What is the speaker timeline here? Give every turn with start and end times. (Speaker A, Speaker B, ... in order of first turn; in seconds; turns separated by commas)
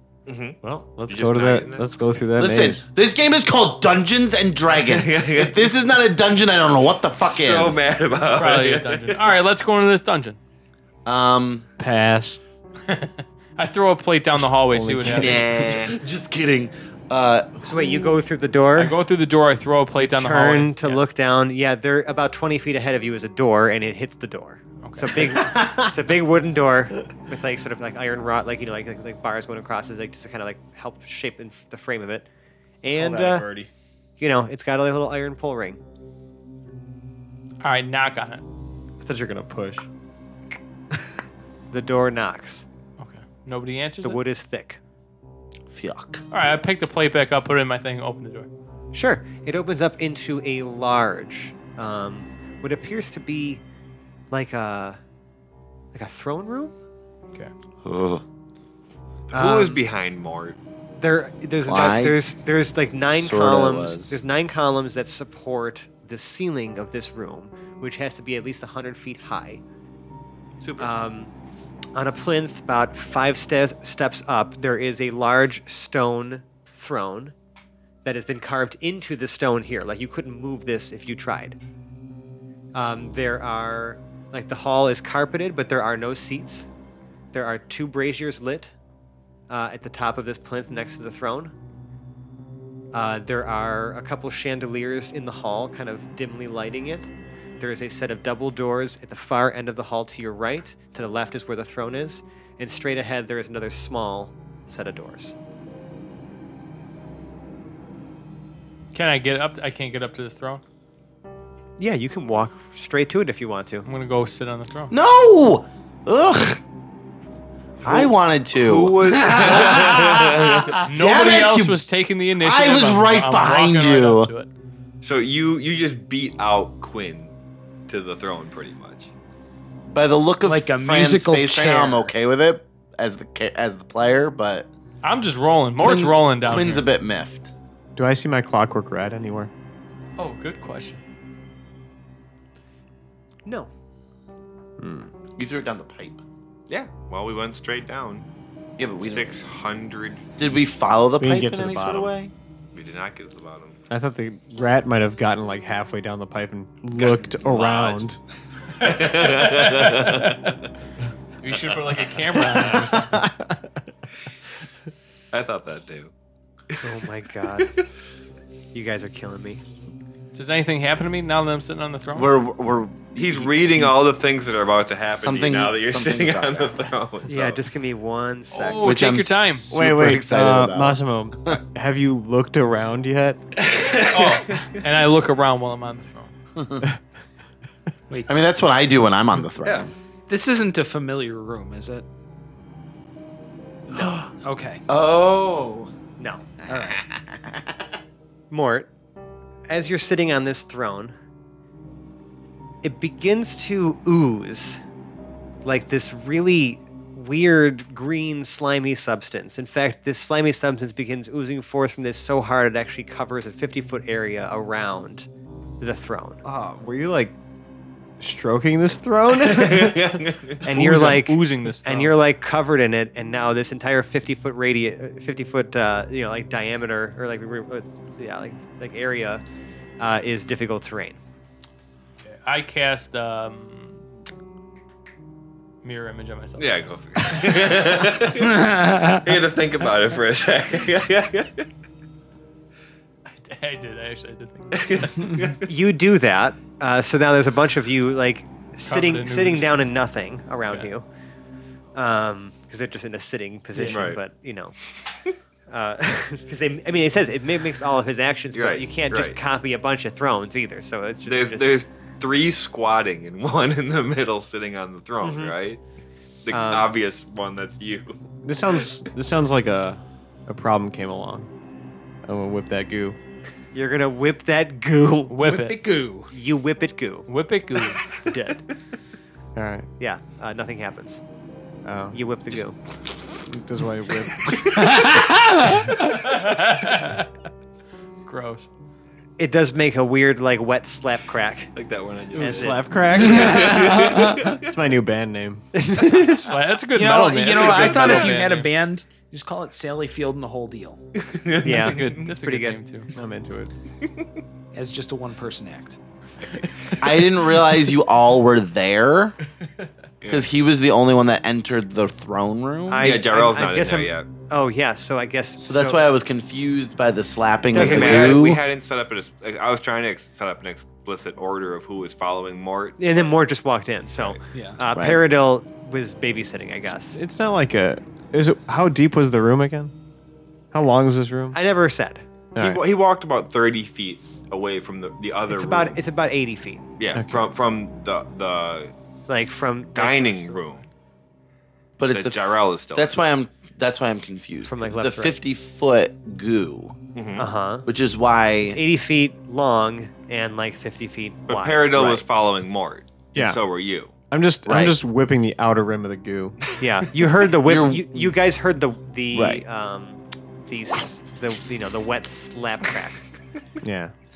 Speaker A: 0.3-2.0, Speaker B: 0.6-2.9, Speaker C: 2.4-7.8, Speaker A: 4.7-5.7, Speaker A: 7.2-9.2, Speaker D: 8.3-10.4, Speaker C: 11.0-11.7, Speaker B: 11.8-12.4, Speaker D: 12.9-15.4, Speaker B: 14.6-15.4, Speaker C: 15.0-18.2, Speaker A: 15.1-16.0, Speaker E: 17.6-18.9, Speaker D: 18.8-21.0, Speaker E: 20.1-32.3, Speaker D: 24.8-25.2, Speaker C: 25.2-25.9, Speaker E: 32.8-33.5, Speaker C: 32.9-33.7, Speaker E: 34.2-35.8, Speaker D: 37.6-38.4, Speaker B: 39.0-39.9, Speaker E: 41.7-42.6, Speaker D: 43.0-44.2, Speaker E: 44.0-44.8, Speaker C: 45.7-46.2, Speaker D: 46.3-48.5, Speaker E: 48.9-53.6, Speaker E: 54.3-55.0, Speaker E: 55.9-56.7, Speaker C: 57.8-58.2, Speaker A: 59.3-60.6, Speaker E: 59.3-59.8, Speaker E: 61.0-69.6, Speaker C: 61.6-62.2, Speaker C: 63.1-64.2, Speaker A: 70.6-70.9, Speaker E: 70.8-71.3, Speaker E: 71.9-77.3, Speaker E: 78.0-81.6, Speaker E: 82.7-86.7, Speaker E: 87.3-88.7, Speaker E: 89.5-91.5, Speaker E: 92.9-105.3, Speaker D: 108.9-110.6, Speaker E: 111.8-113.8, Speaker D: 113.8-114.9, Speaker C: 114.9-116.6, Speaker A: 117.8-120.8, Speaker C: 117.8-121.8, Speaker D: 120.8-124.5, Speaker C: 122.4-124.3, Speaker A: 125.0-127.3, Speaker A: 127.9-129.1, Speaker C: 129.9-134.7, Speaker F: 130.4-132.1, Speaker D: 135.0-136.9, Speaker C: 135.8-137.5, Speaker B: 137.9-139.5, Speaker D: 140.2-141.0, Speaker E: 143.4-143.7, Speaker B: 144.8-145.1, Speaker C: 145.4-146.2, Speaker A: 146.7-148.3, Speaker C: 148.8-149.4, Speaker A: 149.0-150.2, Speaker C: 150.4-152.3, Speaker B: 151.2-152.2, Speaker A: 152.7-153.8, Speaker B: 153.9-158.2, Speaker A: 156.9-158.0, Speaker A: 158.8-160.5, Speaker D: 159.2-160.6, Speaker D: 161.4-163.2, Speaker B: 162.6-163.6, Speaker A: 165.3-166.1, Speaker E: 166.8-167.7, Speaker E: 168.7-169.6, Speaker D: 170.3-172.3, Speaker C: 172.1-174.0, Speaker A: 173.1-177.6, Speaker C: 175.1-176.9, Speaker E: 177.3-179.0, Speaker D: 178.5-179.7, Speaker C: 178.8-181.6, Speaker B: 179.7-183.4, Speaker D: 184.0-186.3, Speaker C: 186.6-186.8, Speaker F: 188.1-188.4, Speaker C: 188.3-189.9, Speaker F: 190.3-192.1, Speaker E: 193.9-194.2, Speaker C: 193.9-194.3, Speaker F: 194.3-194.8, Speaker C: 194.9-195.9, Speaker E: 196.2-196.6, Speaker F: 196.7-197.0, Speaker C: 196.7-197.9, Speaker E: 198.5-198.9, Speaker E: 199.7-201.2, Speaker E: 202.8-204.8, Speaker E: 205.6-215.3, Speaker E: 215.8-216.4, Speaker B: 216.4-217.3, Speaker B: 218.2-220.2, Speaker A: 219.4-220.6, Speaker E: 220.6-229.4, Speaker D: 220.7-222.2, Speaker E: 230.0-231.2, Speaker D: 232.2-234.0, Speaker D: 235.8-236.8, Speaker A: 236.6-241.7, Speaker F: 238.4-239.2, Speaker D: 243.3-245.5, Speaker A: 244.8-245.6, Speaker E: 245.6-251.1, Speaker D: 248.8-249.9, Speaker E: 251.9-254.7, Speaker D: 253.7-254.1, Speaker A: 253.8-254.2, Speaker E: 255.7-261.7, Speaker A: 258.5-259.4, Speaker A: 261.2-265.8, Speaker E: 265.2-265.6, Speaker A: 266.4-268.2, Speaker E: 266.5-266.9, Speaker B: 268.4-271.5, Speaker B: 272.2-273.2, Speaker E: 273.7-275.4, Speaker D: 275.3-275.8, Speaker F: 275.4-276.3, Speaker E: 276.3-277.3, Speaker D: 277.3-278.0, Speaker E: 278.2-278.6, Speaker B: 279.6-279.9, Speaker E: 280.0-281.2, Speaker B: 281.8-282.2, Speaker E: 282.1-282.8, Speaker B: 283.5-284.9, Speaker F: 284.9-285.9, Speaker D: 285.8-287.3, Speaker D: 288.2-288.7, Speaker E: 289.4-291.7, Speaker A: 291.7-294.7, Speaker B: 292.4-295.6, Speaker E: 292.4-292.9, Speaker F: 293.7-294.1, Speaker E: 295.7-296.5, Speaker D: 296.4-298.7, Speaker F: 296.9-301.0, Speaker A: 297.6-298.2, Speaker A: 301.2-302.2, Speaker E: 301.6-302.8, Speaker D: 301.6-303.1, Speaker B: 303.1-303.7, Speaker F: 304.7-306.0, Speaker A: 306.5-306.9, Speaker C: 307.0-309.3, Speaker A: 310.2-310.5, Speaker C: 310.3-313.2, Speaker E: 312.9-316.0, Speaker A: 313.0-314.3, Speaker C: 315.6-318.6, Speaker E: 317.7-318.6, Speaker A: 317.7-323.3, Speaker E: 323.0-327.1, Speaker F: 324.5-324.8, Speaker C: 324.9-325.2, Speaker B: 326.8-329.9, Speaker B: 330.7-331.6, Speaker E: 331.5-332.2, Speaker B: 332.5-332.8, Speaker A: 332.6-336.0, Speaker E: 335.5-336.8, Speaker A: 337.0-338.9, Speaker B: 337.1-337.5, Speaker E: 339.3-340.6, Speaker A: 339.9-340.8, Speaker C: 342.0-346.9, Speaker A: 342.1-343.1, Speaker E: 344.6-345.4, Speaker A: 347.1-347.5, Speaker E: 347.4-347.9, Speaker C: 347.9-348.8, Speaker E: 348.6-352.2, Speaker A: 351.5-354.1, Speaker B: 353.3-353.6, Speaker B: 354.3-356.7, Speaker C: 354.6-355.0, Speaker E: 356.8-363.2, Speaker C: 357.6-358.4, Speaker C: 359.3-359.6, Speaker B: 363.8-364.1